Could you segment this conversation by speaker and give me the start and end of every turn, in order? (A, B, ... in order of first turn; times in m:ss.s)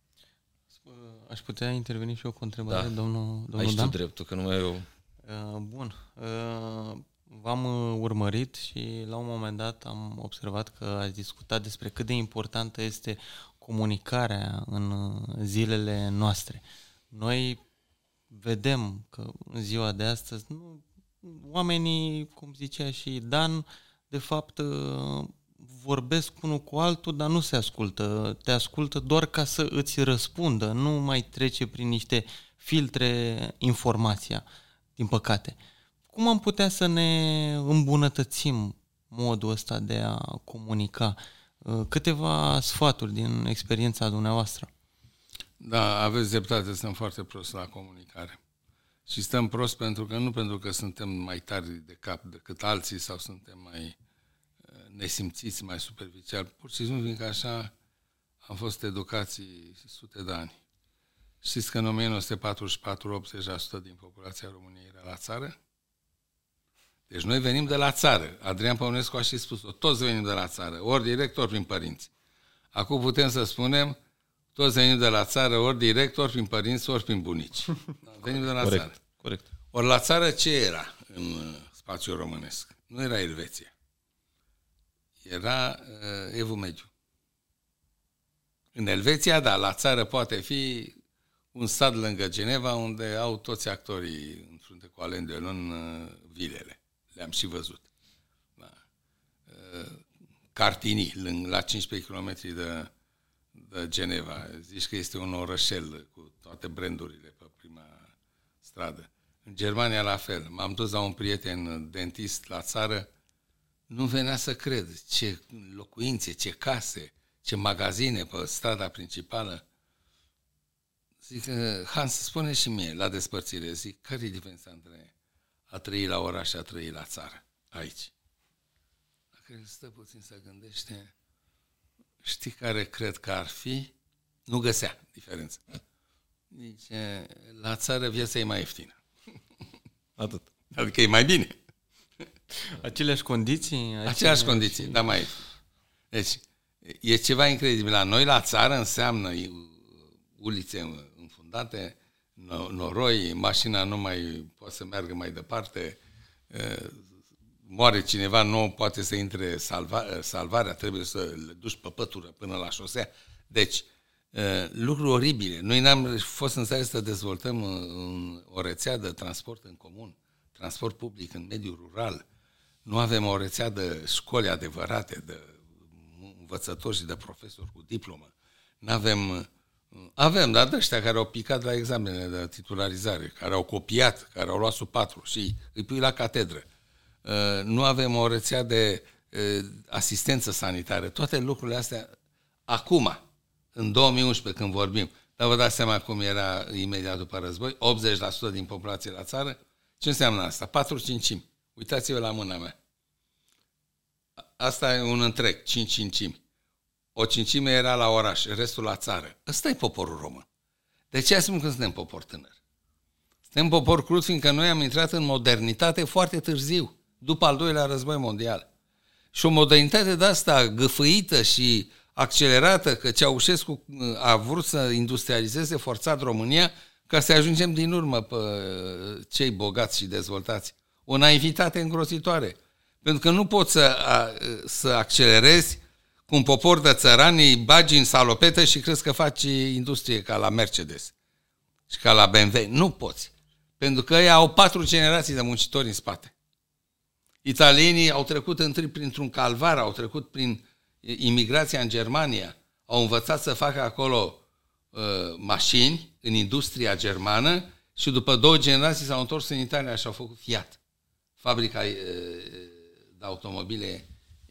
0:00.8-0:04.0 A
0:03.6-0:04.9 B
0:05.2-0:17.6 A
0:18.3-0:34.5 A
0:35.0-0:35.6 A
0:36.1-0:44.7 A
0:45.6-0:48.4 C
0:49.1-0:54.0 C
0:54.8-0:57.7 C
0:58.4-1:00.6 C
1:01.4-1:05.6 C
1:07.1-1:12.1 C
1:12.7-1:14.0 C
1:14.6-1:19.0 C
1:18.6-1:19.4 B
1:19.7-1:23.7 C
1:25.2-1:26.9 C
1:28.7-1:31.0 C
1:31.5-1:37.9 C
1:39.5-1:42.9 C
1:43.6-1:48.1 C
1:48.6-1:53.1 C
1:53.9-1:59.6 C
2:01.2-2:05.1 C
2:05.7-2:08.1 C
2:09.4-2:11.1 C
2:12.2-2:13.9 C
2:14.5-2:15.6 C
2:16.5-2:19.0 C
2:20.2-2:20.4 B
2:20.7-2:21.6 C
2:22.7-2:25.0 A
2:24.1-2:25.4 C
2:26.1-2:36.0 C
2:36.5-2:37.1 C
2:37.7-2:52.2 C
2:52.8-2:58.3 C
2:58.8-2:59.5 C
3:00.0-3:06.7 C
3:07.2-3:12.1 C
3:12.7-3:13.2 C
3:13.7-3:22.8 C
3:24.4-3:26.4 C
3:27.1-3:30.4 C
3:31.1-3:32.6 C
3:33.5-3:38.7 C
3:39.3-4:01.1 C
4:01.9-4:06.3 C
4:07.4-4:14.4 C
4:14.9-4:20.8 C
4:21.4-4:24.1 C